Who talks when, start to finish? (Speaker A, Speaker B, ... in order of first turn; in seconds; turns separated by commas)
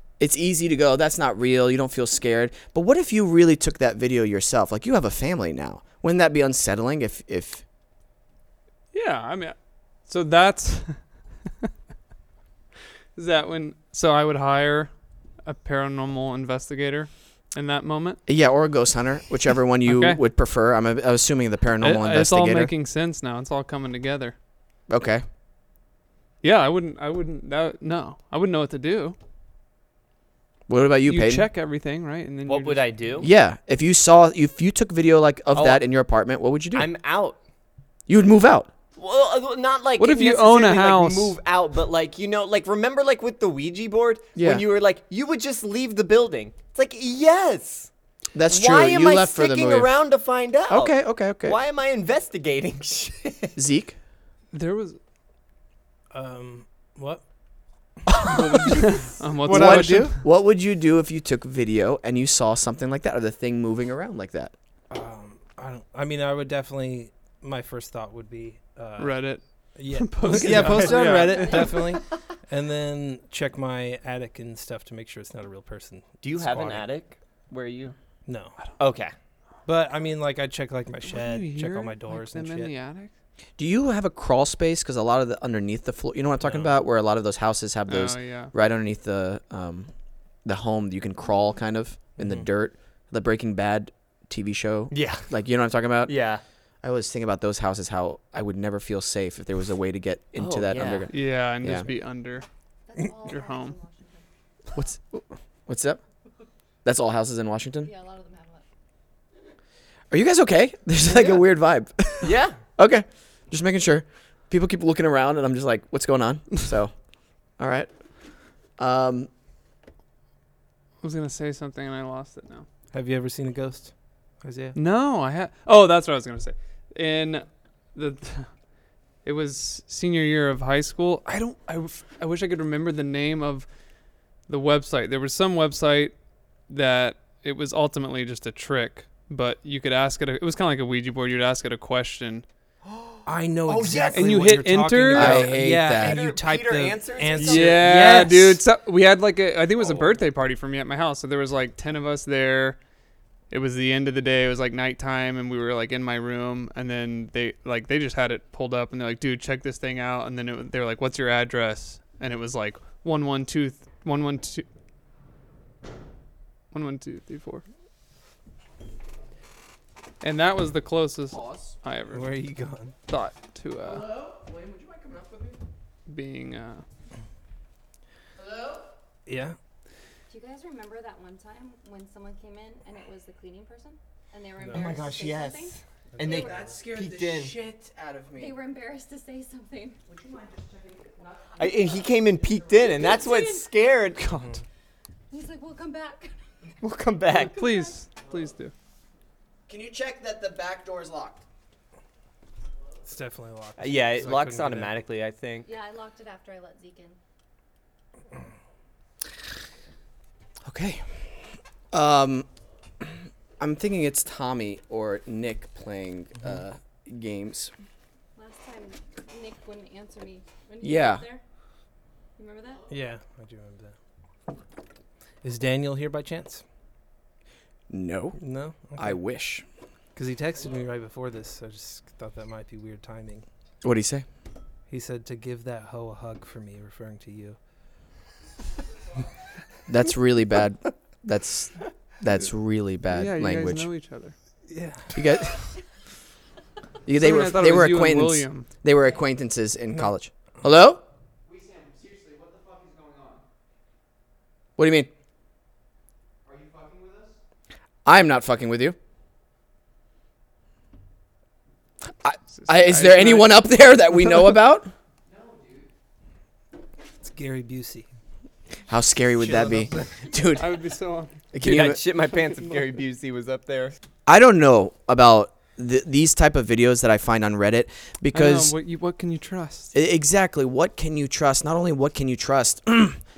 Speaker A: 0.2-7.6, Speaker B: 8.9-11.1, Speaker B: 13.2-14.9, Speaker B: 15.4-18.2, Speaker A: 18.3-22.7, Speaker B: 19.9-20.2, Speaker B: 21.8-24.3, Speaker A: 24.9-25.2, Speaker B: 26.4-29.2, Speaker A: 30.7-31.4, Speaker B: 31.1-33.2, Speaker C: 32.5-33.3, Speaker A: 33.2-36.9, Speaker C: 35.5-35.8, Speaker C: 36.7-37.4, Speaker A: 38.1-38.7, Speaker C: 39.0-47.9, Speaker B: 40.0-41.4, Speaker A: 44.4-44.6, Speaker A: 48.3-49.9, Speaker C: 48.5-53.5, Speaker A: 50.7-51.6, Speaker A: 53.5-54.0, Speaker B: 54.5-55.0, Speaker D: 56.1-57.2, Speaker A: 58.1-58.8, Speaker C: 58.3-59.8, Speaker B: 58.7-60.2, Speaker A: 59.4-64.5, Speaker D: 64.9-69.2, Speaker B: 69.0-71.8, Speaker D: 69.8-76.9, Speaker C: 70.3-71.8, Speaker C: 76.2-78.0, Speaker D: 78.3-78.5, Speaker C: 78.8-79.1, Speaker D: 79.7-82.7, Speaker B: 81.1-83.1, Speaker A: 83.6-89.9, Speaker B: 87.9-88.5, Speaker A: 90.4-96.1, Speaker D: 92.2-92.4, Speaker C: 94.9-95.3, Speaker C: 96.0-96.4, Speaker A: 96.8-101.9, Speaker C: 100.4-101.1, Speaker B: 101.1-102.4, Speaker E: 102.9-104.2, Speaker B: 103.2-103.8, Speaker A: 104.8-106.0, Speaker A: 106.8-107.9, Speaker E: 107.8-108.6, Speaker A: 110.1-116.9, Speaker C: 112.2-112.6, Speaker A: 117.6-117.9, Speaker A: 118.8-119.3, Speaker B: 121.0-122.7, Speaker D: 122.9-124.8, Speaker B: 124.8-128.5, Speaker B: 129.2-133.7, Speaker B: 134.5-136.1, Speaker B: 136.7-142.4, Speaker C: 142.8-144.5, Speaker D: 143.2-148.6, Speaker B: 144.1-145.4, Speaker A: 145.1-146.2, Speaker C: 145.9-148.1, Speaker B: 147.3-152.8, Speaker C: 149.8-150.1, Speaker B: 153.5-164.7, Speaker B: 166.7-167.6, Speaker B: 170.2-172.3, Speaker A: 171.3-171.6, Speaker D: 172.1-172.9, Speaker B: 173.1-174.1, Speaker A: 173.8-175.6, Speaker B: 176.1-176.8, Speaker A: 178.4-178.8, Speaker D: 179.3-179.6, Speaker E: 180.3-186.6, Speaker D: 184.6-184.9, Speaker C: 184.7-187.5, Speaker D: 186.1-186.5, Speaker A: 186.4-188.6, Speaker E: 188.3-190.0, Speaker F: 190.2-191.6, Speaker C: 191.6-194.2, Speaker E: 192.9-193.7, Speaker B: 194.2-194.5, Speaker D: 194.3-194.6, Speaker E: 195.3-196.3, Speaker C: 196.8-197.6, Speaker E: 197.4-198.1, Speaker B: 197.5-198.7, Speaker A: 199.7-201.4, Speaker D: 203.0-205.0, Speaker C: 203.8-205.7, Speaker E: 205.6-207.2, Speaker A: 210.6-211.0, Speaker A: 211.9-212.5, Speaker A: 213.0-217.7, Speaker E: 218.3-221.4, Speaker A: 220.8-221.2, Speaker E: 222.4-222.8, Speaker D: 222.9-223.9, Speaker D: 225.4-226.6, Speaker A: 227.9-228.4, Speaker D: 228.4-229.2, Speaker A: 229.0-229.6, Speaker D: 230.1-233.4, Speaker A: 233.8-234.2, Speaker D: 234.9-237.6, Speaker A: 239.9-243.9, Speaker B: 243.1-244.3, Speaker D: 244.7-245.2, Speaker A: 245.1-245.7, Speaker A: 247.1-251.0, Speaker B: 247.2-248.7, Speaker F: 251.4-253.4, Speaker A: 254.8-255.1, Speaker F: 256.4-257.4, Speaker A: 258.0-259.0, Speaker A: 262.2-264.9, Speaker B: 262.6-263.6, Speaker F: 265.2-265.9, Speaker D: 267.2-268.1, Speaker A: 268.9-270.8, Speaker D: 269.4-270.2, Speaker B: 270.5-271.4, Speaker A: 271.5-272.0, Speaker C: 271.6-273.9, Speaker A: 274.2-278.7, Speaker B: 278.3-279.9, Speaker A: 279.9-283.2